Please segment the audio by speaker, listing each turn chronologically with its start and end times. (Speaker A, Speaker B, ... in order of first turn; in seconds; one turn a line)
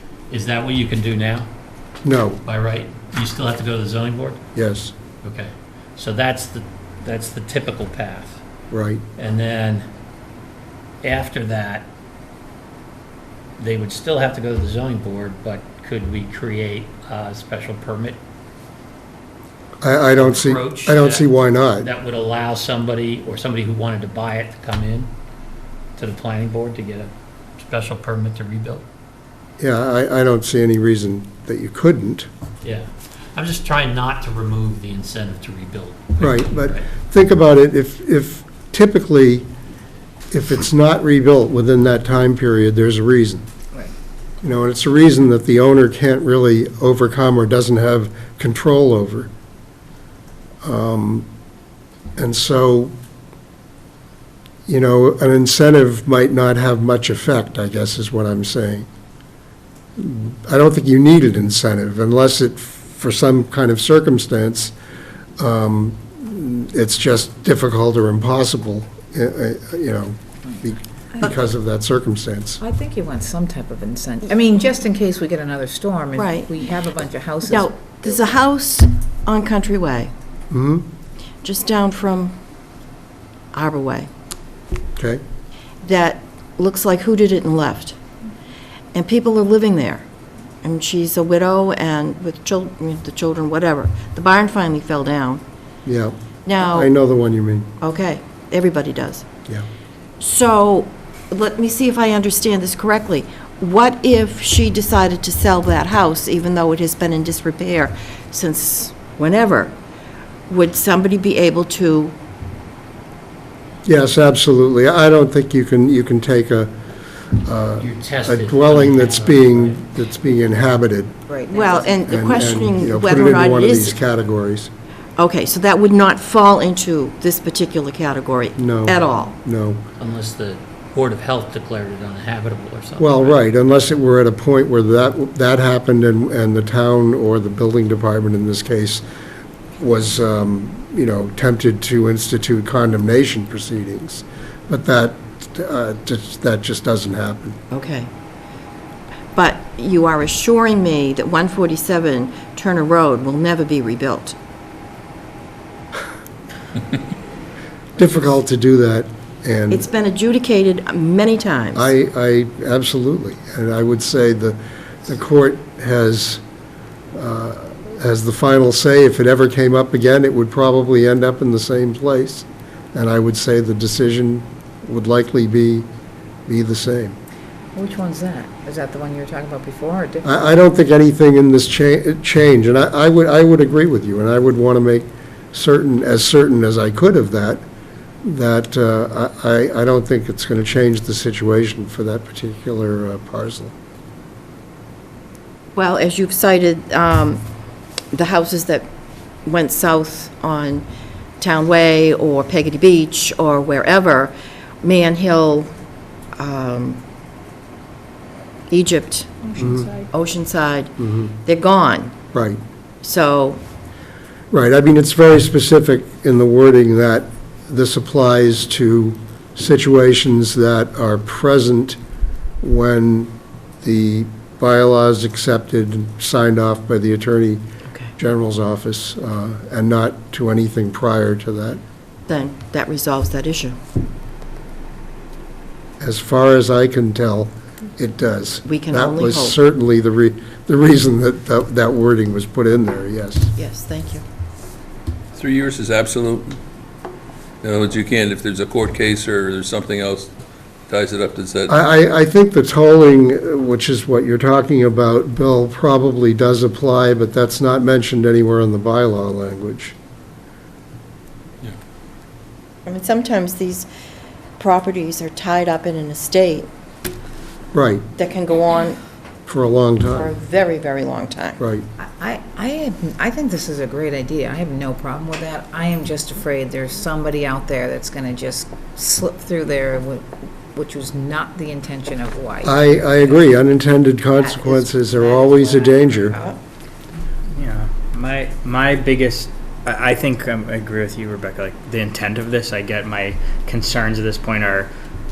Speaker A: 0.3-1.5
Speaker B: 2.0-2.4
Speaker A: 2.4-4.4
Speaker B: 4.5-4.9
Speaker A: 5.2-8.4
Speaker B: 8.7-9.0
Speaker A: 9.2-9.8
Speaker A: 11.0-11.9
Speaker A: 13.6-18.2
Speaker B: 19.8-21.9
Speaker A: 20.1-21.3
Speaker A: 21.8-25.1
Speaker A: 26.0-28.8
Speaker B: 29.6-32.3
Speaker A: 32.6-36.9
Speaker B: 36.2-39.5
Speaker B: 40.3-43.5
Speaker B: 44.4-49.3
Speaker B: 50.6-51.3
Speaker B: 52.1-52.9
Speaker B: 54.7-58.9
Speaker B: 60.0-64.7
Speaker B: 65.4-72.6
Speaker C: 72.6-78.0
Speaker D: 76.1-76.5
Speaker D: 77.4-80.1
Speaker B: 80.5-80.8
Speaker D: 81.4-82.3
Speaker D: 83.5-84.1
Speaker B: 85.0-85.2
Speaker D: 85.8-88.0
Speaker D: 88.9-90.0
Speaker D: 90.6-95.4
Speaker B: 95.8-97.7
Speaker D: 96.4-96.9
Speaker D: 97.8-99.2
Speaker D: 100.2-109.7
Speaker D: 110.5-112.1
Speaker B: 113.8-116.7
Speaker B: 117.3-121.2
Speaker A: 117.8-119.8
Speaker C: 121.3-122.3
Speaker D: 121.5-123.9
Speaker B: 122.1-124.7
Speaker D: 125.2-129.3
Speaker B: 128.6-129.8
Speaker A: 130.0-133.3
Speaker B: 133.0-139.0
Speaker B: 139.8-147.6
Speaker D: 147.7-148.1
Speaker D: 149.3-154.3
Speaker B: 158.0-159.8
Speaker D: 159.7-161.9
Speaker B: 161.7-166.4
Speaker B: 167.1-175.9
Speaker B: 176.5-177.2
Speaker C: 177.7-180.3
Speaker B: 180.2-187.6
Speaker B: 188.2-193.7
Speaker D: 195.8-197.4
Speaker D: 198.1-198.9
Speaker D: 199.4-200.8
Speaker D: 201.4-205.7
Speaker D: 206.3-207.0
Speaker D: 208.7-212.2
Speaker C: 209.5-210.1
Speaker B: 209.6-209.9
Speaker B: 211.0-211.3
Speaker B: 212.3-212.6
Speaker D: 213.0-213.6
Speaker B: 214.5-222.0
Speaker B: 222.6-227.6
Speaker B: 228.2-231.8
Speaker D: 232.3-233.8
Speaker B: 236.0-243.5
Speaker D: 238.7-239.6
Speaker D: 243.6-244.2
Speaker E: 245.3-246.6
Speaker E: 247.6-250.3
Speaker E: 250.9-251.7
Speaker B: 251.7-259.9
Speaker D: 262.9-263.9
Speaker D: 264.6-266.7
Speaker B: 267.7-268.1
Speaker D: 268.2-269.0
Speaker B: 269.5-270.3
Speaker D: 270.1-271.6
Speaker B: 271.6-271.8
Speaker C: 272.0-282.9
Speaker B: 282.6-286.4
Speaker C: 284.4-286.6
Speaker F: 287.6-294.9